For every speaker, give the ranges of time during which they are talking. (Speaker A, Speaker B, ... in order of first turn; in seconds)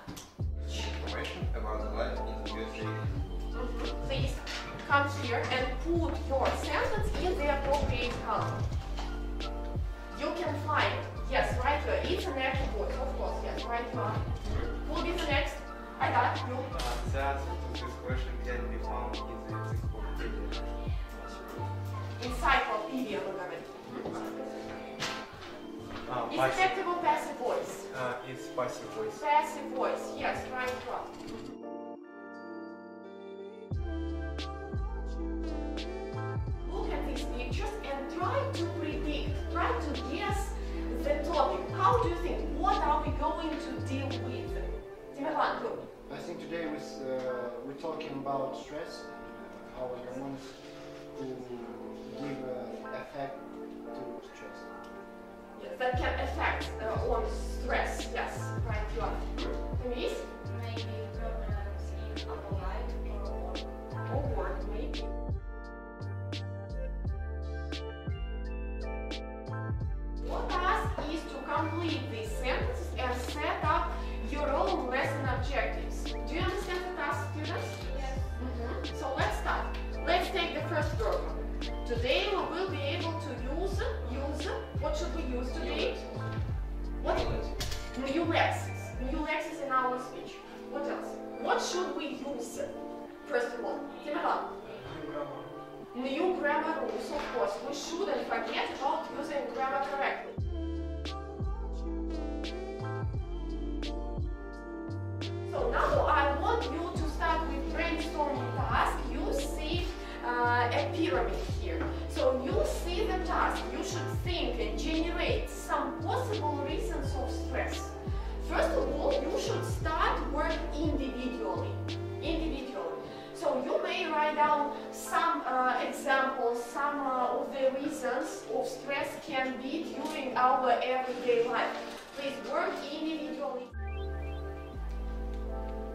Speaker A: 0.7-3.4, 85.5-87.6
Speaker B: 3.5-8.6, 10.1-16.7, 21.1-21.6, 22.2-24.9, 26.3-27.9, 29.2-31.1, 36.6-45.9, 55.5-60.2, 64.0-65.1, 70.2-86.0, 87.0-94.5, 95.9-100.3, 105.5-133.7
Speaker C: 16.7-20.7, 26.1-26.8, 27.9-29.2
Speaker D: 46.1-54.7
Speaker E: 60.5-63.7, 77.9-78.2